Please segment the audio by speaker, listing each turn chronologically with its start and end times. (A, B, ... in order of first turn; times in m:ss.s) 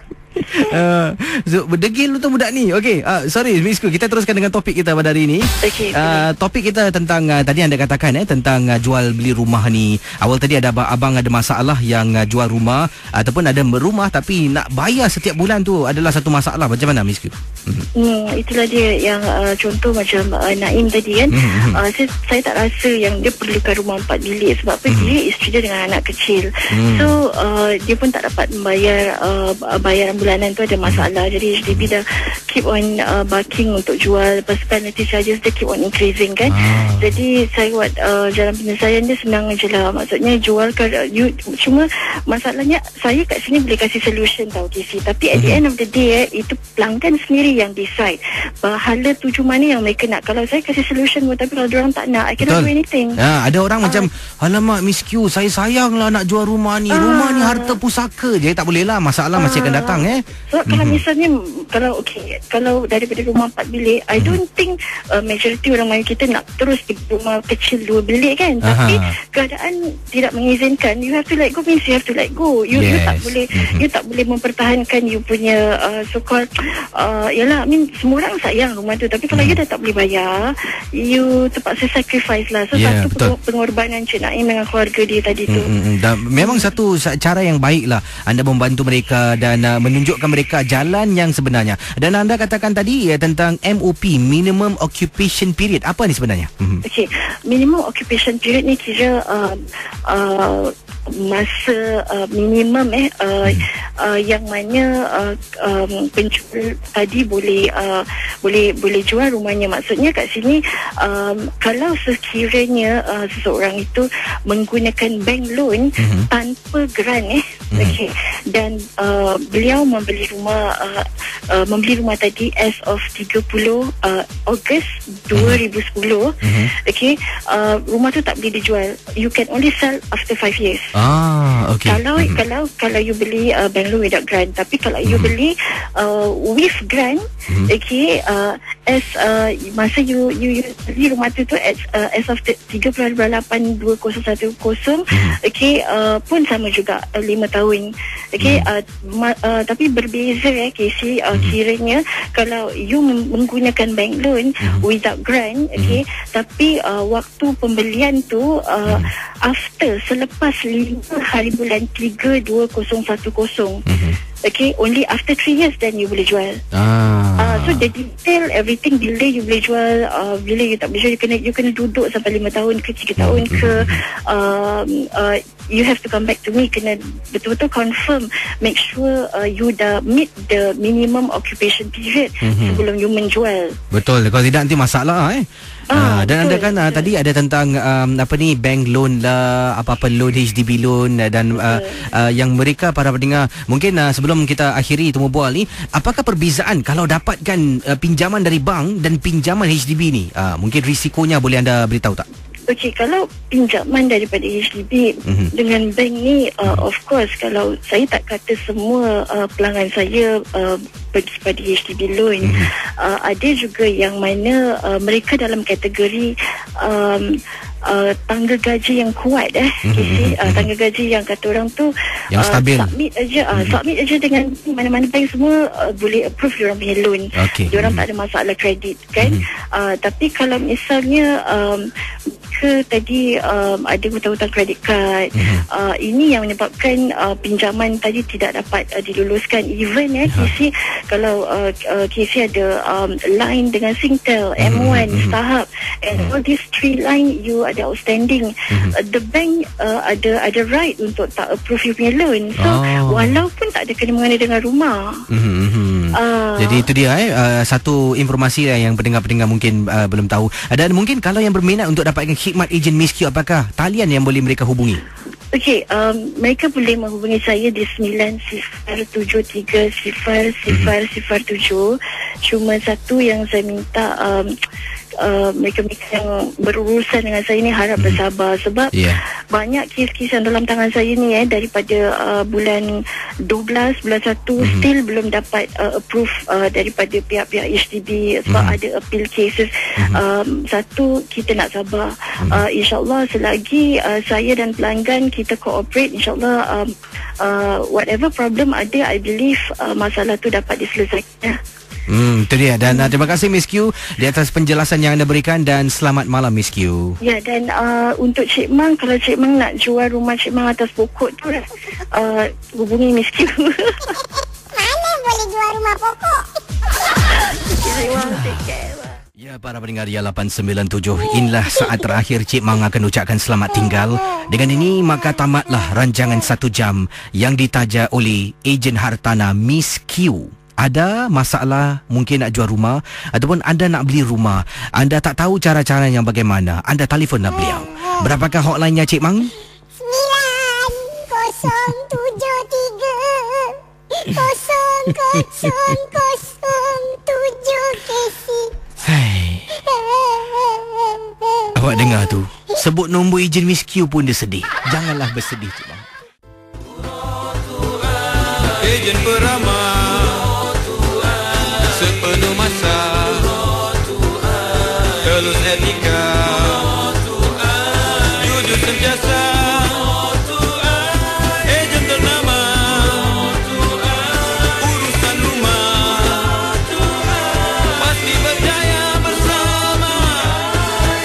0:00.4-0:17.8 A
0:05.6-0:06.2 B
0:18.0-0:53.2 B
0:21.3-0:21.8 A
0:24.9-0:25.1 A
0:26.7-0:27.2 A
0:36.5-0:37.2 A
0:45.3-0:45.6 A
0:52.4-1:01.0 A
0:56.9-0:57.8 B
0:59.4-1:25.7 B
1:08.6-1:09.1 A
1:12.7-1:13.8 A
1:19.3-1:19.6 A
1:22.7-1:23.3 A
1:25.5-1:36.8 A
1:26.4-1:26.7 B
1:36.8-2:11.0 B
1:56.0-1:56.3 A
2:05.3-2:05.6 A
2:06.4-2:06.7 A
2:10.9-2:12.4 A
2:11.8-2:43.8 B
2:15.0-2:15.3 A
2:25.1-2:25.4 A
2:28.4-2:28.7 A
2:43.9-2:44.2 A
2:44.4-2:46.6 B
2:46.7-2:47.9 A
2:47.4-3:03.8 B
2:53.2-2:54.0 A
3:02.4-3:02.8 A
3:03.9-3:22.2 A
3:05.9-3:07.1 B
3:11.5-3:12.0 B
3:22.7-3:51.9 B
3:25.2-3:25.5 A
3:32.4-3:32.7 A
3:39.8-3:40.7 A
3:42.3-3:42.9 A
3:43.5-3:43.8 A
3:47.4-3:48.0 A
3:49.2-3:49.4 A
3:52.5-4:15.2 B
3:55.4-3:55.6 A
4:04.6-4:05.4 A
4:12.6-4:13.4 A
4:15.3-4:25.0 A
4:16.2-4:16.8 B
4:25.5-4:34.5 B
4:35.2-4:38.9 B
4:38.9-4:39.2 A
4:39.5-5:01.6 B
4:44.6-4:44.9 A
4:48.5-4:48.8 A
4:50.0-4:50.2 A
5:02.1-5:07.2 A
5:07.2-5:14.2 B
5:14.7-5:16.4 C
5:17.3-5:19.2 B
5:18.1-5:18.6 A
5:19.4-5:39.5 A
5:40.0-5:48.7 C
5:45.2-5:46.0 A
5:49.0-5:49.8 A
5:49.9-5:51.5 C
5:51.7-5:56.1 A
5:58.8-6:00.7 D
6:01.8-6:03.8 D
6:05.0-6:16.8 D
6:17.7-6:20.7 D